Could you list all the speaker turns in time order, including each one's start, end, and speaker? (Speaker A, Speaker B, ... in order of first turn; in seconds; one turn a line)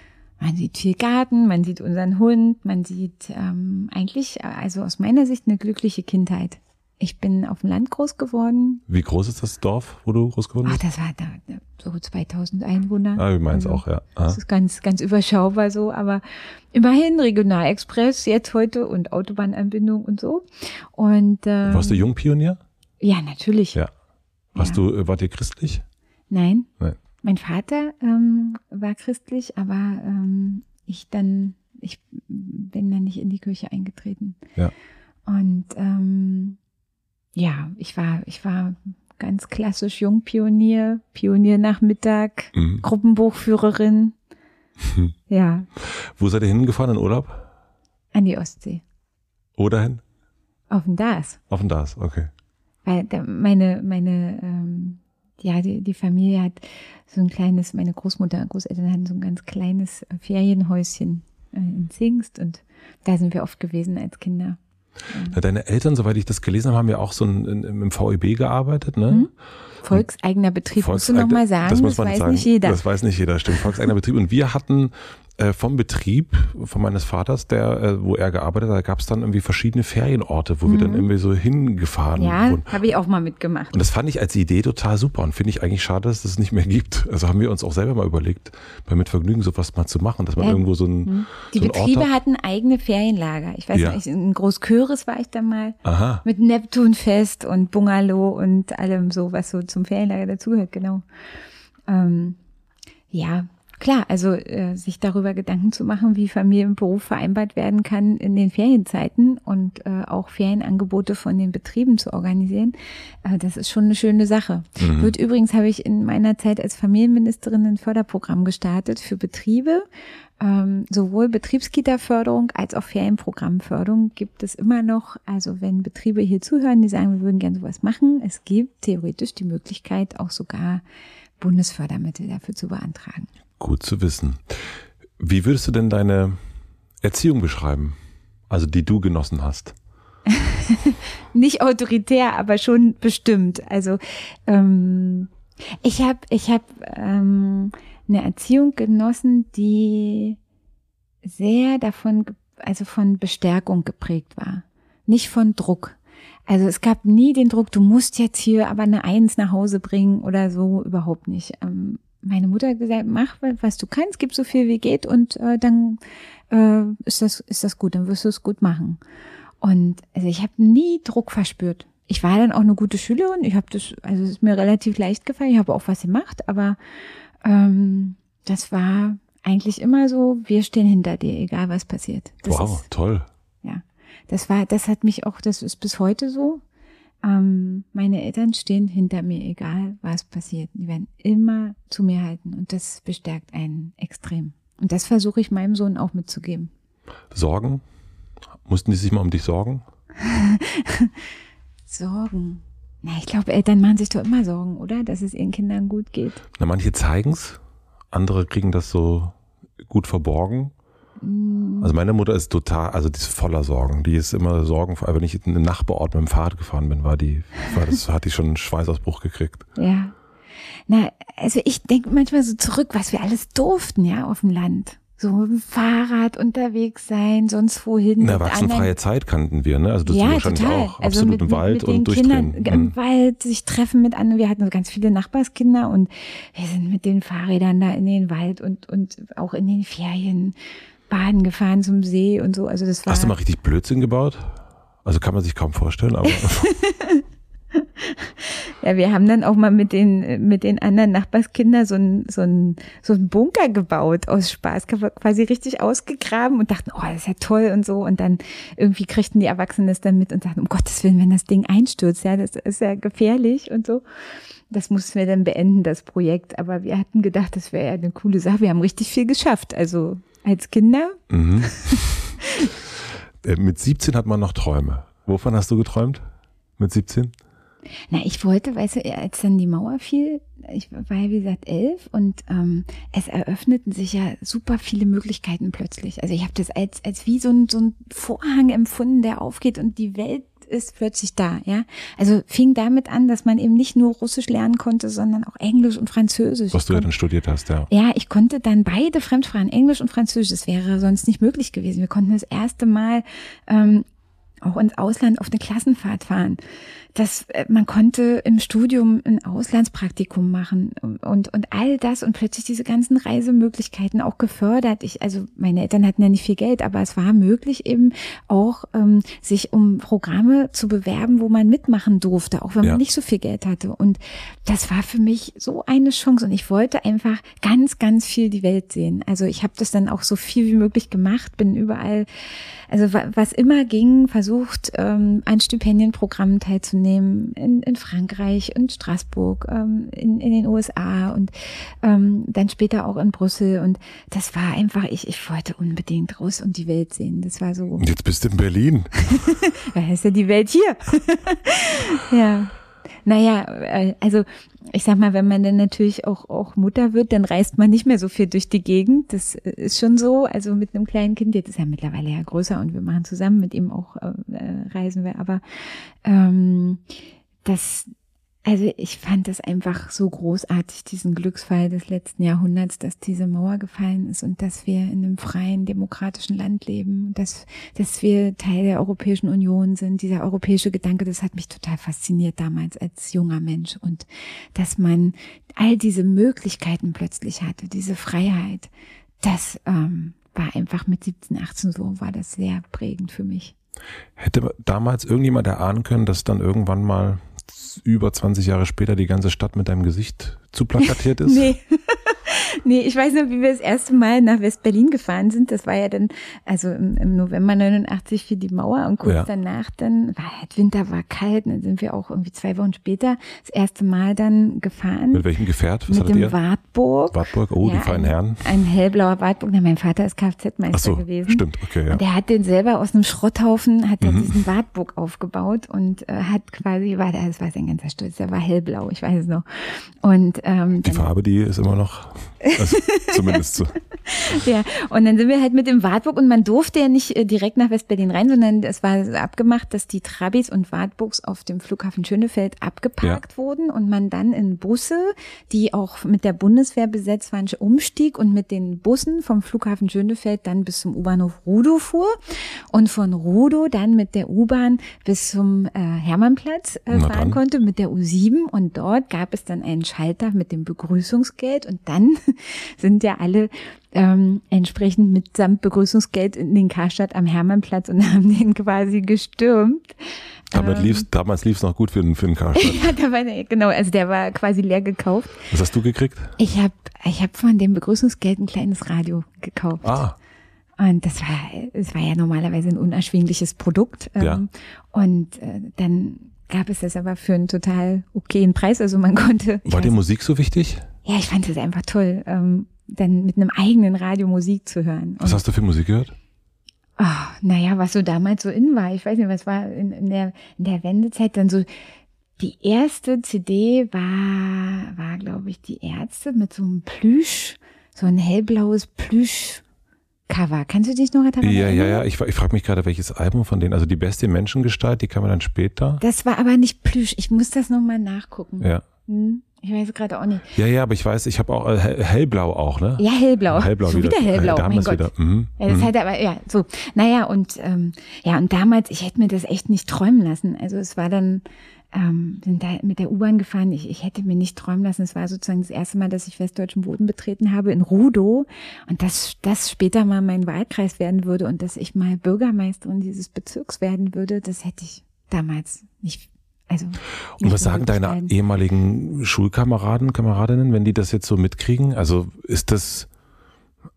Speaker A: 0.4-8.8
Speaker B: 8.9-10.8
Speaker A: 10.6-22.1
Speaker B: 13.2-14.4
Speaker B: 21.6-22.6
Speaker A: 23.0-23.8
Speaker B: 24.6-25.8
Speaker A: 26.3-26.7
Speaker A: 27.2-34.4
Speaker A: 35.3-36.6
Speaker A: 37.4-44.1
Speaker B: 42.5-42.8
Speaker B: 44.8-45.1
Speaker A: 45.3-45.7
Speaker B: 45.8-47.5
Speaker A: 48.1-48.8
Speaker B: 49.6-50.0
Speaker A: 50.7-51.4
Speaker B: 51.5-52.3
Speaker A: 52.9-64.6
Speaker A: 65.1-65.4
Speaker B: 65.3-69.3
Speaker A: 69.8-72.8
Speaker B: 70.8-82.7
Speaker A: 80.6-81.1
Speaker A: 82.2-83.8
Speaker B: 83.7-92.1
Speaker A: 90.4-101.0
Speaker B: 93.7-94.0
Speaker B: 95.8-96.2
Speaker A: 101.9-102.4
Speaker A: 103.1-119.8
Speaker B: 114.8-115.1
Speaker A: 120.4-130.8
Speaker A: 131.4-133.3
Speaker B: 133.6-134.6
Speaker B: 135.2-136.4
Speaker B: 137.0-138.0
Speaker B: 138.5-139.8
Speaker A: 140.3-145.3
Speaker A: 145.8-150.4
Speaker A: 151.2-156.0
Speaker A: 156.5-169.0
Speaker A: 169.6-176.8
Speaker A: 177.4-182.9
Speaker B: 182.5-183.3
Speaker A: 183.6-186.6
Speaker A: 187.2-196.7
Speaker B: 197.3-197.8
Speaker B: 198.7-199.8
Speaker A: 200.2-201.1
Speaker A: 201.9-206.4
Speaker B: 206.6-207.6
Speaker B: 208.1-210.7
Speaker A: 211.2-211.9
Speaker B: 211.8-219.6
Speaker A: 219.8-220.1
Speaker A: 220.9-228.9
Speaker B: 228.2-232.9
Speaker A: 230.1-240.6
Speaker A: 241.1-243.4
Speaker B: 243.1-246.7
Speaker A: 246.3-264.0
Speaker A: 264.7-272.7
Speaker B: 271.3-272.3
Speaker B: 273.4-276.2
Speaker B: 276.8-277.3
Speaker A: 278.1-297.1
Speaker B: 296.7-297.9
Speaker A: 297.9-304.1
Speaker A: 304.6-306.6
Speaker A: 307.1-348.1
Speaker B: 348.0-349.5
Speaker A: 349.2-352.7
Speaker A: 353.2-365.6
Speaker A: 366.2-367.0
Speaker A: 367.6-368.1
Speaker A: 368.6-388.9
Speaker A: 389.4-393.7
Speaker B: 394.4-401.7
Speaker A: 401.0-415.4
Speaker B: 415.3-416.6
Speaker A: 416.1-431.3
Speaker B: 417.3-418.7
Speaker B: 420.9-422.2
Speaker B: 424.2-424.6
Speaker B: 431.1-434.0
Speaker A: 432.6-433.7
Speaker A: 434.2-452.4
Speaker A: 452.9-470.1
Speaker B: 457.1-457.6
Speaker A: 470.7-471.3
Speaker B: 470.7-473.1
Speaker A: 472.8-475.7
Speaker B: 475.7-476.6
Speaker A: 476.6-480.2
Speaker B: 480.0-480.4
Speaker A: 481.0-490.1
Speaker B: 489.9-491.1
Speaker A: 491.2-495.6
Speaker B: 495.4-496.3
Speaker A: 497.2-501.9
Speaker A: 502.6-509.8
Speaker A: 510.5-512.2
Speaker B: 511.6-516.2
Speaker A: 516.2-520.8
Speaker B: 518.8-519.0
Speaker B: 520.8-526.1
Speaker A: 523.2-548.5
Speaker B: 547.6-553.3